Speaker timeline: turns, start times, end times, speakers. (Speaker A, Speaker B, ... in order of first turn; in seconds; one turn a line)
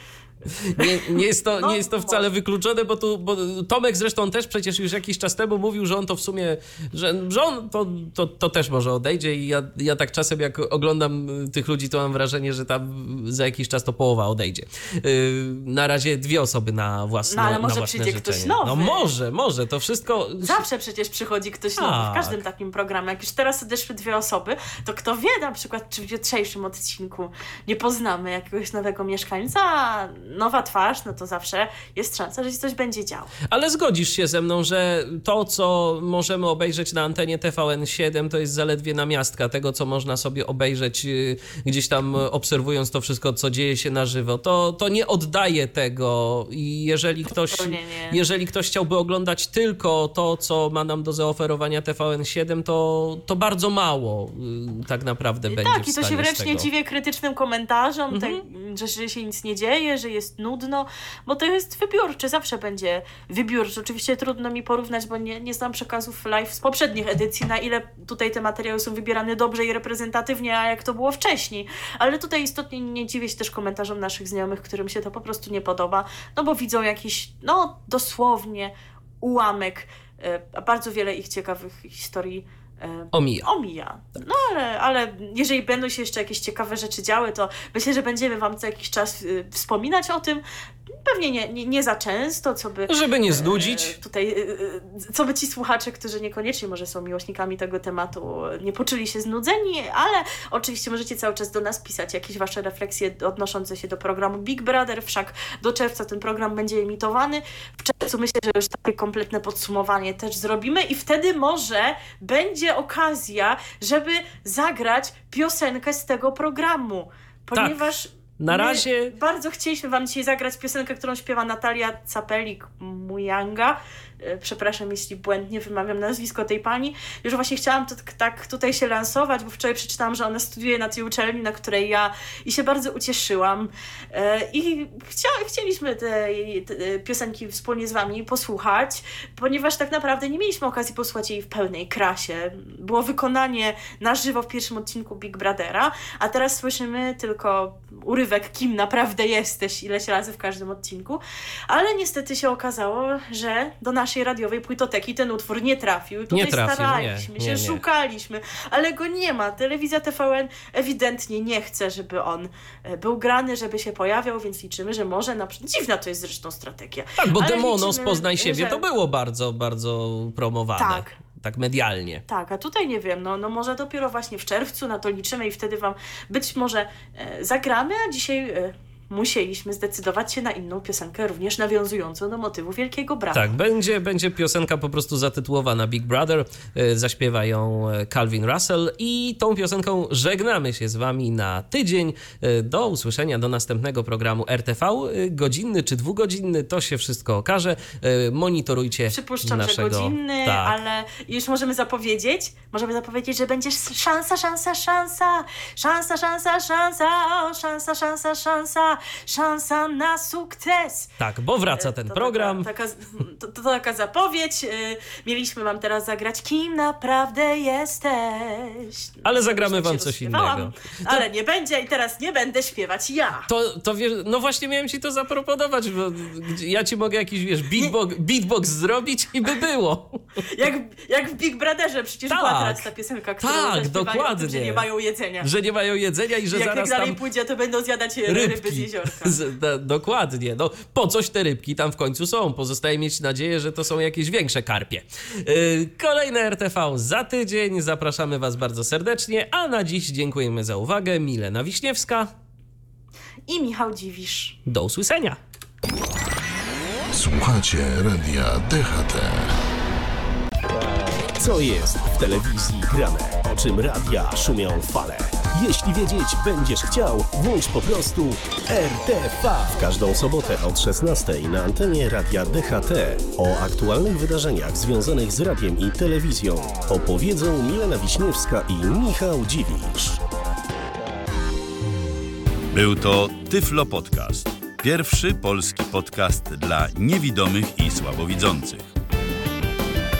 Speaker A: 0.5-20.6
Speaker B: 0.8-2.3
Speaker B: 17.3-19.1
Speaker B: 20.4-33.3
Speaker A: 21.8-22.4
Speaker A: 33.5-56.7
Speaker B: 47.5-48.2
Speaker B: 55.5-168.8
Speaker A: 58.1-58.4
Speaker A: 83.1-83.5
Speaker A: 92.9-93.9
Speaker A: 117.5-117.8
Speaker A: 118.4-119.1
Speaker A: 156.3-157.8
Speaker A: 167.2-172.2
Speaker B: 170.8-171.1
Speaker B: 172.3-183.4
Speaker A: 183.3-200.8
Speaker B: 199.1-211.1
Speaker A: 211.2-212.7
Speaker B: 211.7-223.5
Speaker A: 219.2-221.2
Speaker A: 223.5-230.2
Speaker B: 230.5-235.5
Speaker A: 232.3-232.8
Speaker A: 233.4-234.8
Speaker A: 235.4-237.2
Speaker B: 236.5-239.3
Speaker A: 238.3-252.3
Speaker B: 253.5-254.6
Speaker A: 254.7-255.4
Speaker C: 257.1-259.5
Speaker D: 260.7-280.2
Speaker E: 282.7-288.9